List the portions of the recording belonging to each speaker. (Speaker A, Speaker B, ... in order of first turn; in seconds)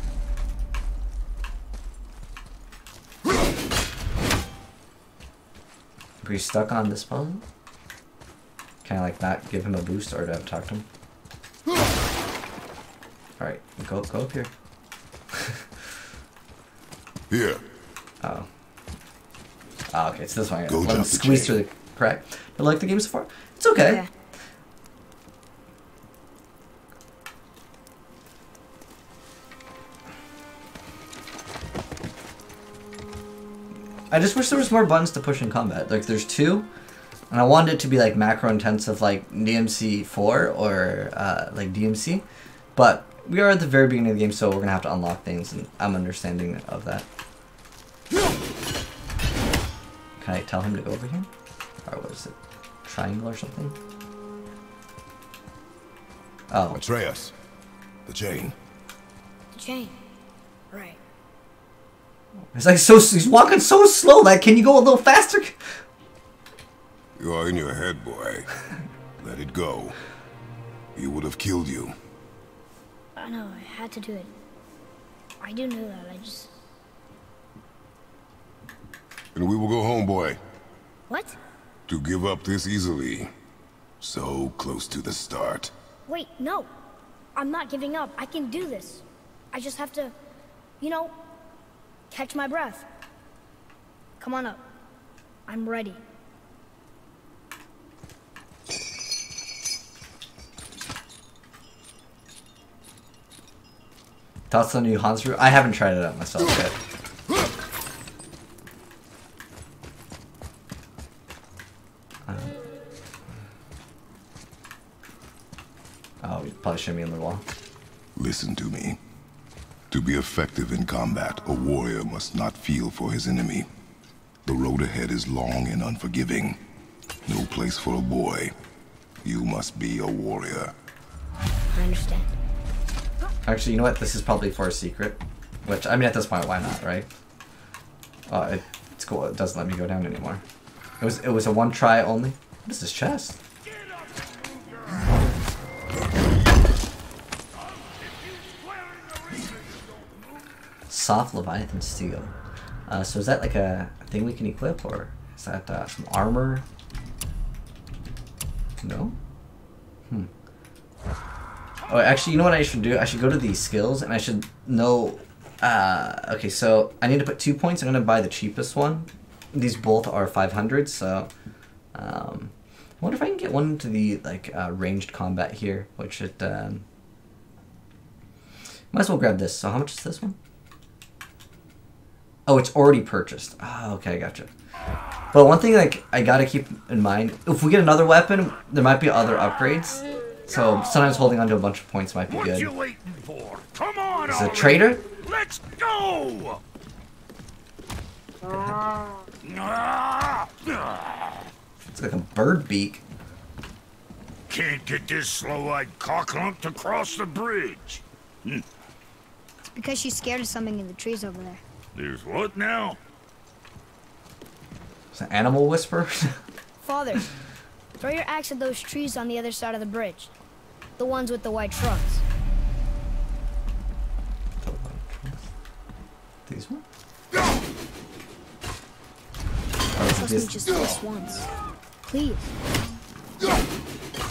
Speaker A: 6.2-7.4, 8.8-10.8, 13.4-14.5, 15.3-15.6, 18.2-18.5, 19.9-24.0, 34.1-36.7, 37.3-47.1, 50.2-51.3, 51.9-53.8, 56.5-56.8, 62.5-65.6, 104.5-106.8, 112.3-112.6, 116.2-117.4, 133.5-137.1, 138.3-140.4, 141.0-143.4, 150.9-152.3, 152.9-156.7, 158.8-159.2, 161.9-171.3, 171.9-176.8, 178.9-180.4, 182.5-184.5, 185.3-192.7, 194.3-195.1, 198.5-198.8, 201.8-203.0, 215.1-216.4, 224.6-225.4, 226.5-226.8, 229.9-230.6
Speaker B: 17.3-17.6, 20.7-21.6, 56.7-57.3, 58.1-58.5, 67.2-68.5, 69.2-70.0, 71.0-72.0, 79.3-80.4, 81.9-83.3, 84.0-85.7, 118.2-119.0, 119.9-123.7, 124.5-126.6, 127.3-128.5, 129.2-130.7
Speaker C: 23.8-24.1, 59.5-59.9, 60.7-61.0, 73.2-74.3, 75.4-76.5, 81.1-81.4, 86.1-86.7, 87.4-90.1, 90.8-91.2, 92.1-92.8, 94.2-94.6, 95.5-96.0, 131.7-132.3, 209.7-211.6, 216.8-217.3, 218.0-220.3, 221.0-222.2, 230.1-231.5, 232.0-232.5
Speaker D: 143.7-145.1, 147.6-150.2, 192.3-196.6, 199.4-201.4, 204.5-208.7, 211.9-213.0